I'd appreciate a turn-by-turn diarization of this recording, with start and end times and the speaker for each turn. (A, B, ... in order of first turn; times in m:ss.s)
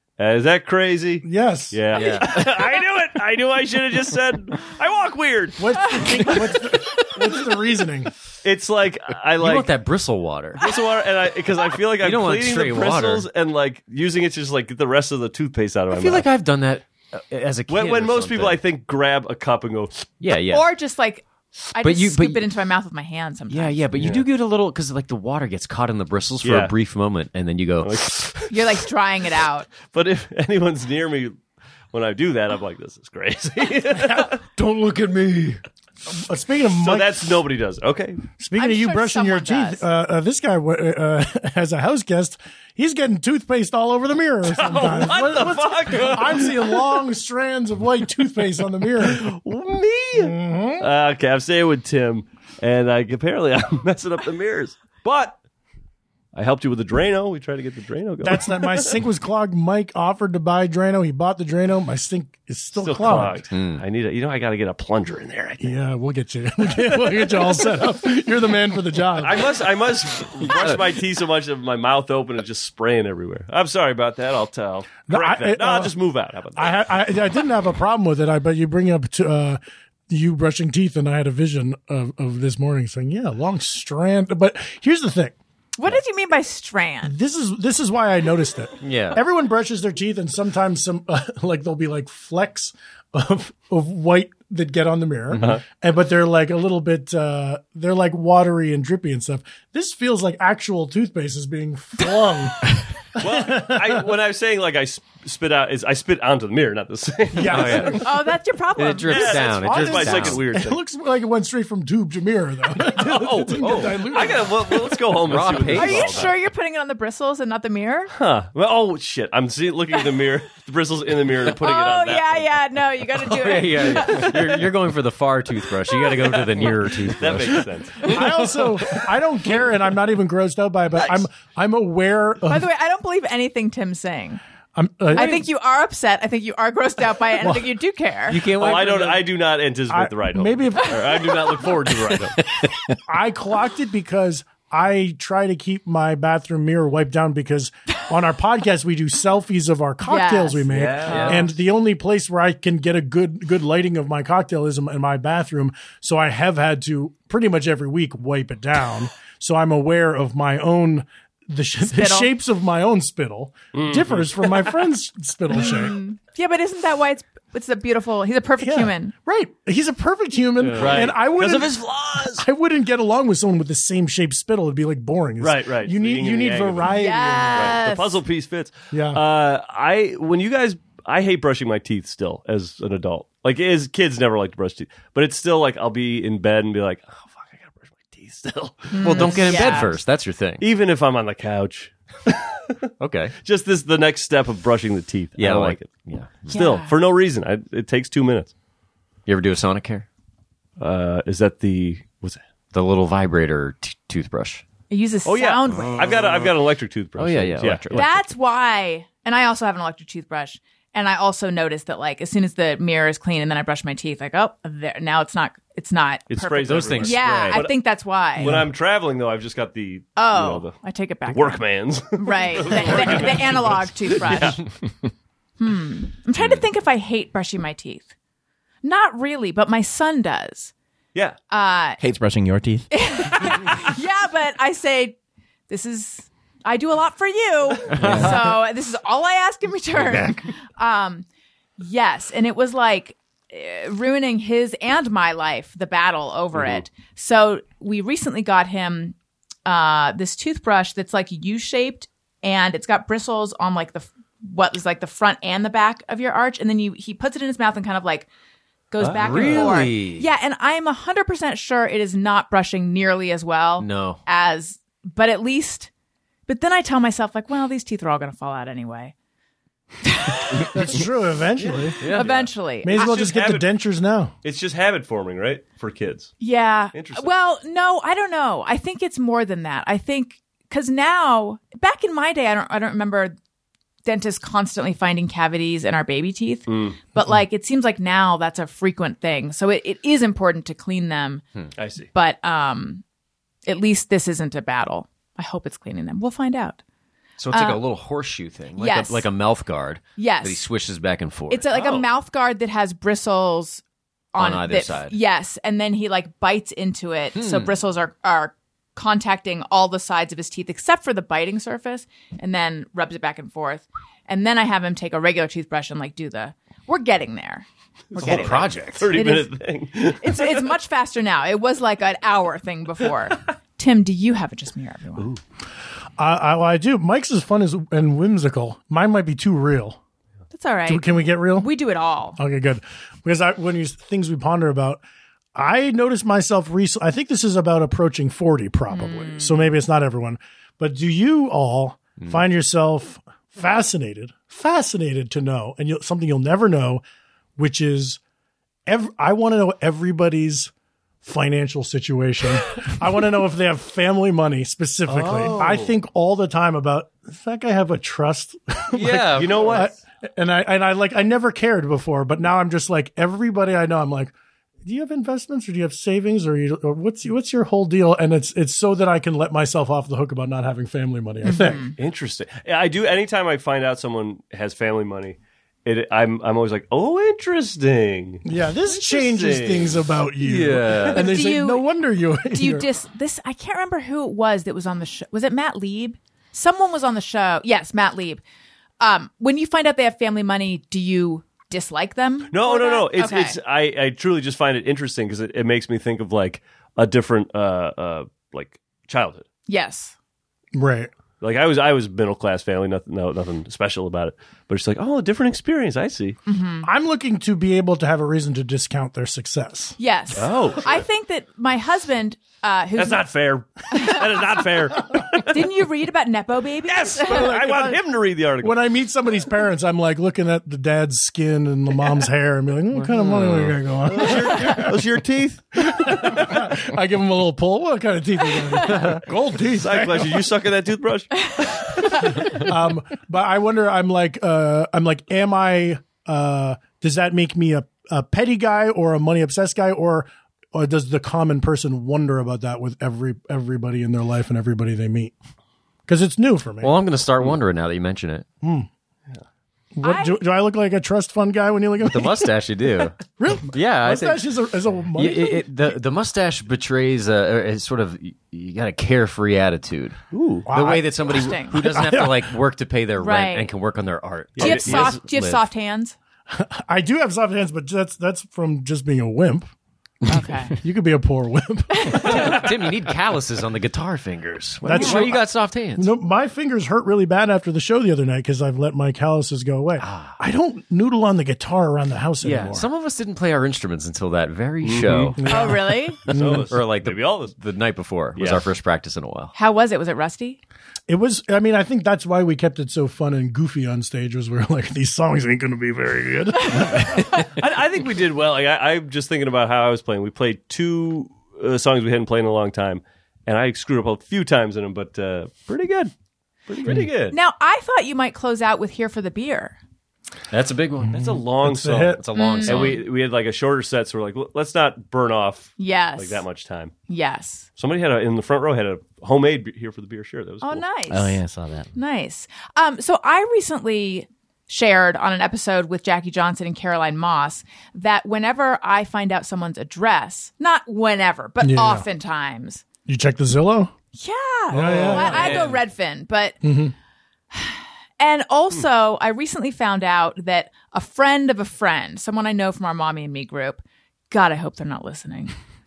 0:00.2-0:06.6 A
0:01.2-0:01.8 B
0:01.9-0:02.4 C
0:05.6-0:08.1 B
0:08.4-0:09.7 A
0:09.4-0:10.7 C
0:10.6-0:16.3 A
0:12.0-0:13.3 C
0:15.9-0:18.6 C
0:17.7-0:20.1 A
0:20.2-0:20.7 C
0:20.5-0:23.9 D
0:21.8-0:22.5 C
0:23.5-0:28.1 C
0:24.0-0:24.3 A
0:26.4-0:26.7 A
0:27.8-0:28.6 A
0:28.5-0:29.7 D
0:29.9-0:31.4 A
0:31.9-0:34.4 A
0:34.0-0:34.3 B
0:34.5-0:35.6 C
0:36.1-0:37.4 B
0:36.7-0:38.2 A
0:38.4-0:49.3 B
0:38.6-0:39.8 D
0:44.5-0:46.8 A
0:49.0-0:55.4 A
0:50.1-0:50.9 B
0:56.3-0:59.0 A
0:58.2-1:03.4 B
1:02.8-1:05.7 A
1:03.5-1:03.8 C
1:05.6-1:10.7 B
1:09.2-1:16.8 A
1:15.1-1:16.0 B
1:16.6-1:25.4 B
1:25.8-1:27.1 D
1:27.0-1:44.1 B
1:28.8-1:29.2 C
1:35.3-1:35.6 C
1:35.4-1:35.6 A
1:43.2-1:48.0 A
1:47.3-1:48.0 B
1:47.5-1:48.0 C
1:48.0-1:49.4 D
1:48.8-1:50.4 C
1:49.1-1:50.8 A
1:49.5-1:54.8 B
1:52.8-1:56.3 A
1:53.5-1:54.2 C
1:55.1-1:56.4 C
1:55.7-1:58.1 D
1:58.1-2:02.5 A
2:01.6-2:04.7 D
2:03.2-2:08.1 C
2:07.2-2:08.3 A
2:07.6-2:12.7 B
2:12.5-2:14.4 D
2:14.8-2:15.4 B
2:15.1-2:18.4 D
2:15.1-2:15.4 C
2:17.4-2:17.7 B
2:18.3-2:19.3 C
2:18.6-2:22.4 A
2:19.9-2:21.7 B
2:23.1-2:46.0 B
2:30.1-2:31.4 D
2:30.7-2:31.5 A
2:31.1-2:31.5 C
2:41.8-2:42.3 D
2:43.7-2:44.8 A
2:45.6-2:49.1 D
2:48.6-2:57.8 B
2:50.6-2:52.4 A
2:55.4-2:56.9 A
2:56.9-2:58.2 D
2:57.5-3:10.0 A
2:58.9-2:59.2 B
3:08.9-3:09.9 D
3:09.0-3:10.7 C
3:10.6-3:12.6 A
3:13.0-3:13.4 C
3:13.4-3:18.5 A
3:15.4-3:16.6 C
3:16.5-3:17.0 D
3:19.3-3:20.1 C
3:20.8-3:22.4 A
3:22.7-3:24.6 C
3:24.9-3:26.0 D
3:25.2-3:28.1 A
3:25.7-3:26.5 C
3:27.2-3:28.3 C
3:27.9-3:38.6 D
3:36.3-3:40.8 A
3:36.6-3:37.6 C
3:40.2-3:41.6 D
3:41.3-3:44.7 A
3:42.2-3:44.6 D
3:45.6-3:48.1 D
3:48.8-3:50.7 D
3:51.5-3:52.0 D
3:52.0-3:53.6 E
3:52.9-3:55.2 D
3:55.7-4:01.3 D
3:57.9-3:58.3 E
4:01.8-4:09.1 D
4:09.7-4:18.3 D
4:18.9-4:25.9 D
4:19.0-4:20.3 C
4:19.0-4:19.7 A
4:23.8-4:24.2 C
4:26.5-4:29.1 D
4:30.0-4:30.7 D
4:30.6-4:32.0 B
4:31.6-4:33.7 A
4:32.0-4:32.5 C
4:32.1-4:33.1 D
4:32.8-4:34.3 B
4:34.4-4:36.4 A
4:36.4-4:43.4 D
4:36.9-4:37.3 A
4:44.0-4:51.4 D
4:46.7-4:47.0 A
4:51.8-4:52.1 A
4:52.1-4:53.0 D
4:53.7-4:56.8 D
4:57.4-5:01.7 C
4:57.5-4:57.8 D
4:58.8-4:59.3 D
5:00.2-5:00.6 D
5:01.5-5:03.8 D
5:01.7-5:02.0 A
5:04.3-5:25.3 D
5:04.4-5:05.2 C
5:07.4-5:07.8 C
5:18.1-5:20.7 A
5:18.2-5:19.2 C
5:26.2-5:30.0 B
5:30.5-5:32.4 D
5:30.9-5:31.7 B
5:32.4-5:35.0 B
5:35.6-5:47.0 B
5:38.9-5:39.7 D
5:47.6-5:48.2 B
5:48.9-5:50.7 B
5:51.2-6:11.9 B
5:55.1-5:55.8 C
5:55.5-5:55.9 A
5:58.9-5:59.9 C
5:59.4-5:59.9 A
6:11.4-6:12.0 D
6:12.0-6:20.0 A
6:18.4-6:22.9 B
6:20.4-6:21.2 C
6:21.1-6:21.9 D
6:22.5-6:28.4 D
6:29.0-6:33.6 D
6:32.5-6:39.5 A
6:39.7-6:40.1 D
6:40.7-6:41.1 B
6:41.4-6:46.4 A
6:46.5-6:46.9 D
6:46.8-6:50.0 B
6:50.0-6:53.3 D
6:50.4-6:51.0 A
6:53.0-6:55.7 A
6:53.9-6:54.2 D
6:55.5-6:57.8 D
6:56.8-6:58.8 A
6:57.3-6:58.0 B
6:58.6-7:05.0 B
7:03.2-7:03.7 C
7:04.0-7:06.6 A
7:05.8-7:10.5 B
7:09.7-7:12.3 A
7:12.3-7:25.3 B
7:26.1-7:27.0 B
7:26.8-7:28.5 C
7:28.6-7:28.9 B
7:30.0-7:32.5 B
7:30.0-7:30.4 D
7:32.0-7:33.2 C
7:33.3-7:35.7 B
7:33.7-7:34.4 C
7:35.1-7:40.2 C
7:40.3-7:40.7 A
7:40.7-7:42.6 B
7:40.7-7:45.6 C
7:41.3-7:41.8 D
7:43.2-7:43.7 D
7:44.6-7:45.2 A
7:44.6-7:46.1 D
7:46.5-7:49.7 B
7:50.3-7:50.8 D
7:50.8-7:52.7 B
7:52.0-7:52.6 D
7:52.2-7:56.1 C
7:54.8-8:02.9 B
8:00.0-8:00.4 C
8:02.4-8:05.5 C
8:04.8-8:05.4 A
8:05.4-8:06.7 B
8:05.5-8:06.2 D
8:06.3-8:07.6 A
8:06.7-8:09.5 C
8:08.4-8:08.7 A
8:09.6-8:10.6 D
8:11.1-8:17.4 B
8:17.5-8:26.1 A
8:26.7-8:27.4 A
8:27.3-8:29.8 D
8:30.5-8:31.4 C
8:31.1-8:36.9 A
8:31.2-8:32.2 B
8:32.1-8:33.1 C
8:32.4-8:33.0 D
8:35.8-8:36.4 D
8:37.1-8:37.7 D
8:37.8-8:40.8 A
8:40.6-8:41.4 D
8:41.1-8:41.9 E
8:42.0-8:52.8 D
8:51.6-8:52.1 B
8:53.1-8:53.9 B
8:54.1-8:56.6 D
8:54.7-8:55.6 B
8:54.8-8:55.8 A
8:56.6-8:57.0 B
8:57.5-9:05.5 D